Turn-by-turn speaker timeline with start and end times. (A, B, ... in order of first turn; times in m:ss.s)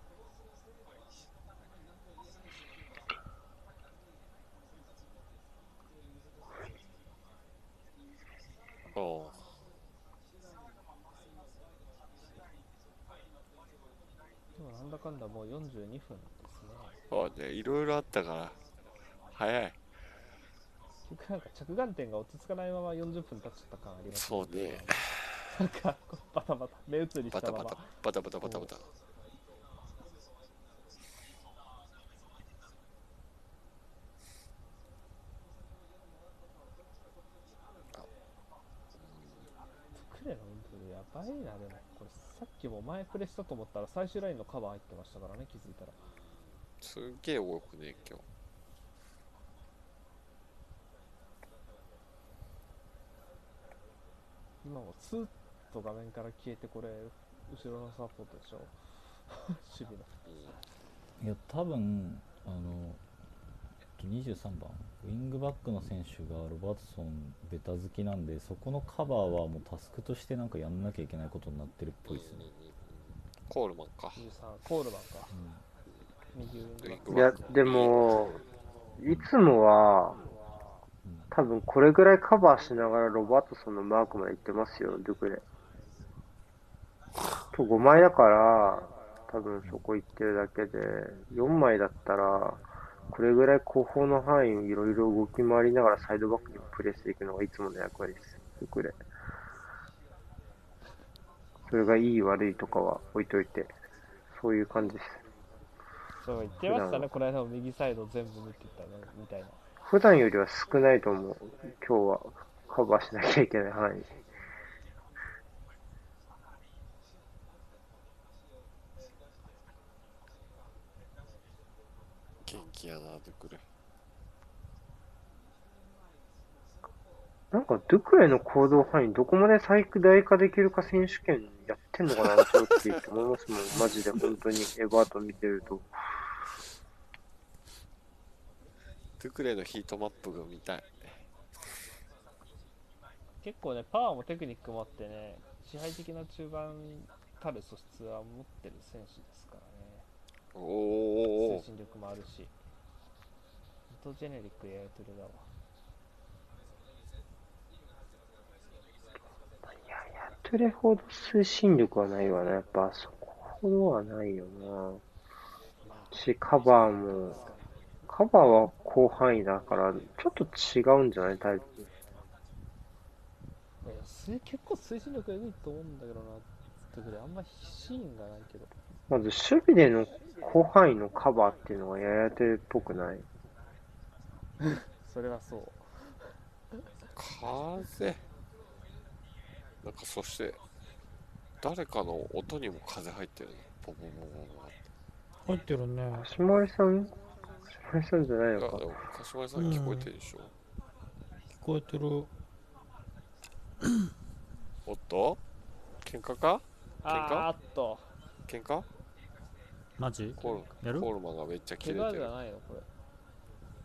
0:08.9-0:09.5 A
0:14.6-0:16.9 B
0:17.1-0:18.6 A
0:19.3-0:19.8 A
0:21.1-0:27.9 B
0:24.1-0:25.1 A
0:27.3-0:28.9 A
0:28.4-0:28.7 B
0:39.0-0:39.5 A
0:40.0-0:46.0 B
0:46.8-0:48.2 A
0:54.6-0:58.7 B
0:59.3-1:00.1 B
1:00.3-1:00.5 A
1:01.2-1:03.0 C
1:04.0-1:12.5 C
1:12.1-1:14.2 A
1:14.2-1:15.4 B
1:15.3-1:15.6 C
1:16.3-1:17.5 B
1:16.8-1:18.1 A
1:17.1-1:18.4 D
1:19.0-1:20.2 D
1:21.0-1:21.3 C
1:21.3-1:25.4 D
1:27.5-1:39.0 D
1:41.7-1:43.7 D
1:44.3-1:45.2 D
1:46.2-1:49.6 B
1:46.6-1:47.1 D
1:49.8-1:54.1 D
2:02.4-2:03.6 A
2:07.5-2:15.9 D
2:13.8-2:14.3 A
2:19.2-2:21.2 A
2:23.4-2:30.1 B
2:30.5-2:31.6 A
2:31.4-2:32.5 B
2:33.9-2:35.5 B
2:39.7-2:45.0 D
2:45.8-2:46.2 B
2:46.1-2:47.4 D
2:47.3-2:47.6 B
2:48.1-2:51.9 D
2:53.8-2:58.7 B
2:59.1-3:03.3 D
3:04.6-3:05.8 B
3:07.2-3:08.2 A
3:09.8-3:10.6 A
3:11.6-3:14.8 A
3:15.5-3:16.3 E
3:16.1-3:17.2 D
3:17.8-3:18.8 D
3:18.6-3:20.5 A
3:19.6-3:20.1 E
3:21.6-3:22.3 E
3:24.9-3:25.4 A
3:26.0-3:27.5 A
3:27.0-3:28.1 B
3:28.5-3:28.9 A
3:30.0-3:31.1 E
3:30.4-3:32.3 A
3:31.8-3:32.9 B